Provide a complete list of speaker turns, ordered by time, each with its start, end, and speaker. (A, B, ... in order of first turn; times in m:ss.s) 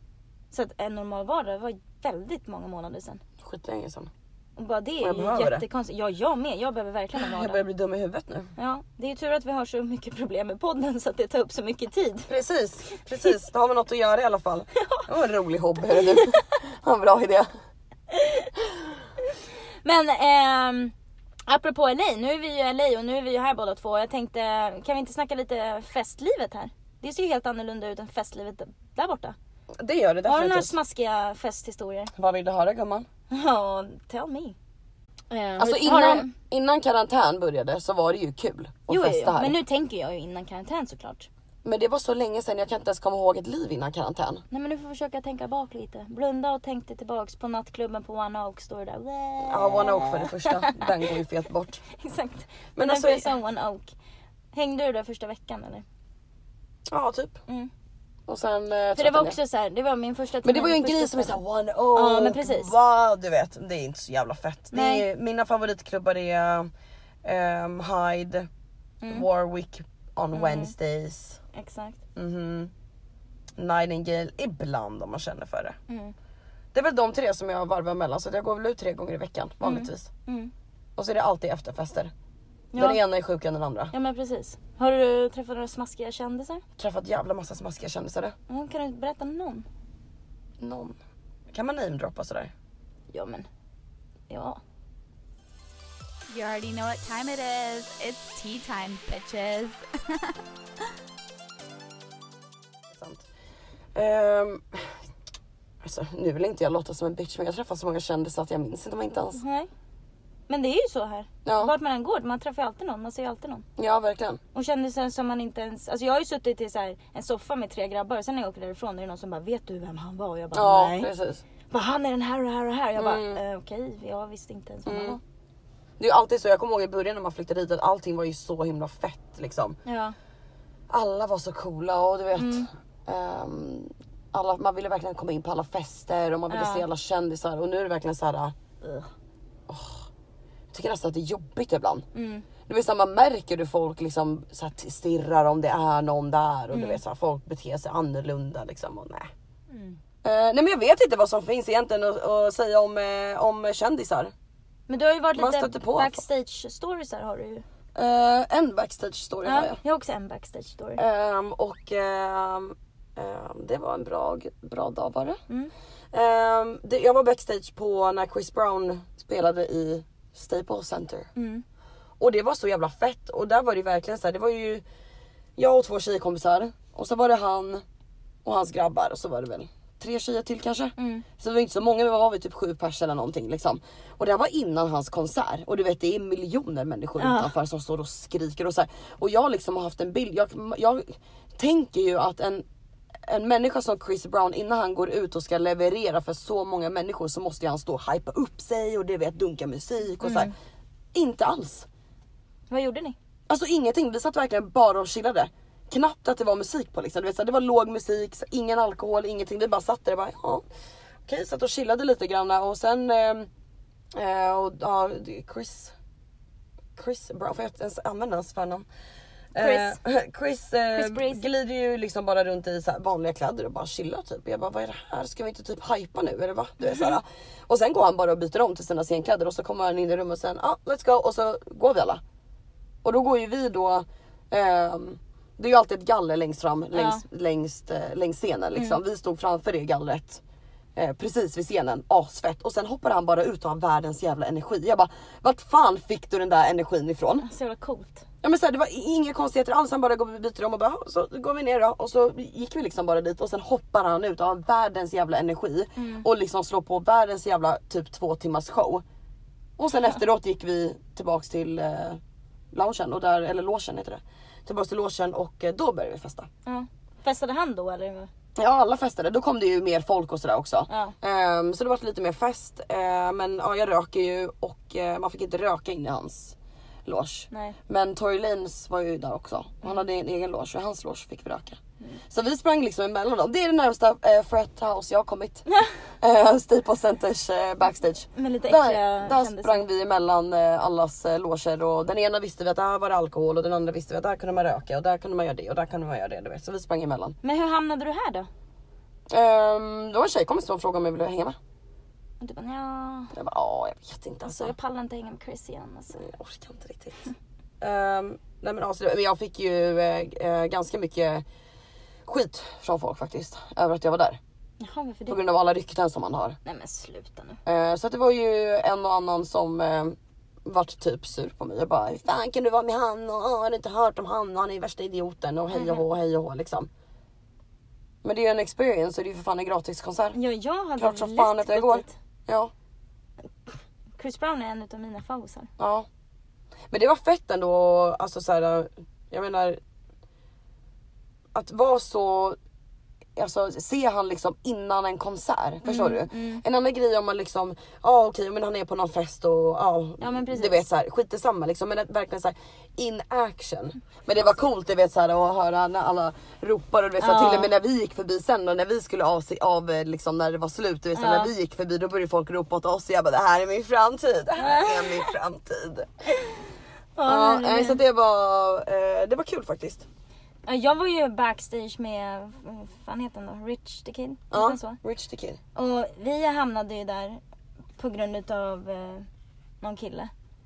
0:00.5-0:03.2 A
0:03.4-0:04.1 B
0:04.6-0:07.6 A
0:05.0-0:05.6 B
0:07.1-0:08.5 B
0:08.6-0:12.3 A
0:12.3-0:17.5 B
0:14.8-0:15.1 A
0:15.9-0:16.4 A
0:18.1-0:18.5 A
0:19.8-0:20.9 A
0:21.5-0:29.4 A
0:29.8-0:30.7 B
0:30.2-0:32.1 A
0:32.2-0:33.0 B
0:33.3-0:34.6 A
0:35.3-0:36.3 A
0:35.6-0:39.6 B
0:38.9-0:41.3 A
0:41.6-0:44.4 B
0:44.5-0:50.9 A
0:49.5-0:51.8 B
0:51.9-0:53.9 A
0:52.8-0:53.3 B
0:54.5-0:55.8 A
0:56.9-0:57.4 B
0:58.3-0:59.4 B
0:58.9-1:01.4 A
1:00.4-1:06.7 B
1:01.9-1:02.7 A
1:04.7-1:05.0 A
1:07.2-1:08.5 B
1:09.1-1:11.4 B
1:10.3-1:10.7 A
1:11.5-1:12.0 A
1:12.2-1:12.7 B
1:13.6-1:15.8 B
1:15.9-1:16.1 A
1:16.7-1:20.1 B
1:19.6-1:20.5 A
1:21.0-1:22.1 B
1:22.7-1:23.0 A
1:22.8-1:23.9 B
1:23.9-1:26.6 A
1:26.8-1:28.3 B
1:28.5-1:29.6 A
1:30.6-1:31.0 B
1:31.5-1:32.5 B
1:33.1-1:33.5 A
1:34.3-1:34.6 A
1:36.3-1:40.4 C
1:42.9-1:43.2 B
1:43.9-1:45.0 B
1:45.8-1:49.4 B
1:49.3-1:49.7 A
1:50.5-1:53.6 A
1:51.4-1:51.7 B
1:53.8-1:54.4 B
1:54.5-2:01.1 A
2:00.5-2:01.4 B
2:01.7-2:05.2 A
2:03.0-2:03.4 B
2:04.8-2:05.2 B
2:06.0-2:09.8 B
2:09.8-2:10.1 A
2:10.9-2:18.5 B
2:12.3-2:12.7 A
2:16.5-2:16.8 A
2:18.8-2:19.1 A
2:19.7-2:20.1 B
2:20.7-2:22.0 B
2:22.1-2:22.4 A
2:22.6-2:29.3 B
2:26.7-2:27.0 A
2:29.7-2:30.0 A
2:30.2-2:34.3 B
2:34.9-2:37.6 A
2:35.3-2:36.2 B
2:37.9-2:39.8 B
2:39.4-2:41.0 A
2:41.0-2:45.4 B
2:46.1-2:51.3 B
2:51.4-2:51.6 A
2:52.2-2:54.8 B
2:55.6-2:57.8 B
2:58.4-3:12.6 B
3:01.0-3:01.2 A
3:07.2-3:07.5 A
3:13.3-3:20.5 B
3:20.2-3:20.5 A
3:21.1-3:21.9 B
3:22.7-3:23.2 A
3:23.5-3:30.6 B
3:31.3-3:33.5 B
3:34.1-3:35.9 B
3:37.0-3:38.8 B
3:39.5-3:52.2 B
3:39.6-3:40.0 A
3:40.9-3:41.4 A
3:46.9-3:47.1 A
3:53.0-4:00.4 B
3:56.9-3:57.2 A
4:01.0-4:07.4 B
4:07.4-4:08.2 A
4:08.4-4:19.0 B
4:16.0-4:16.2 A
4:19.8-4:22.2 B
4:22.7-4:26.5 B
4:26.6-4:28.3 A
4:28.6-4:36.5 B
4:30.9-4:31.1 A
4:37.0-4:41.8 B
4:37.5-4:37.8 A
4:42.3-4:45.6 B
4:46.2-4:57.4 B
4:48.4-4:49.8 A
4:57.4-4:58.5 A
4:59.3-5:01.6 B
5:02.4-5:03.3 A
5:03.3-5:04.7 B
5:04.4-5:06.2 A
5:06.2-5:07.2 B
5:07.8-5:11.4 B
5:12.2-5:14.4 B
5:14.8-5:15.4 A
5:15.3-5:16.6 B
5:16.6-5:17.6 A
5:17.6-5:26.9 B
5:25.7-5:26.0 A
5:28.2-5:30.4 B
5:30.3-5:32.1 A
5:31.0-5:32.7 B
5:34.2-5:35.7 A
5:35.8-5:36.1 B
5:36.9-5:39.8 B
5:41.5-5:42.6 B
5:43.4-6:06.1 B
5:45.8-5:46.6 A
5:50.2-5:50.8 A
5:57.2-5:57.7 A
6:01.1-6:01.5 A
6:04.6-6:05.3 A
6:06.3-6:06.6 A
6:07.2-6:08.0 A
6:07.2-6:10.0 B
6:10.6-6:15.0 A
6:14.5-6:15.6 B
6:15.7-6:17.4 A
6:18.0-6:19.3 A
6:19.8-6:20.3 A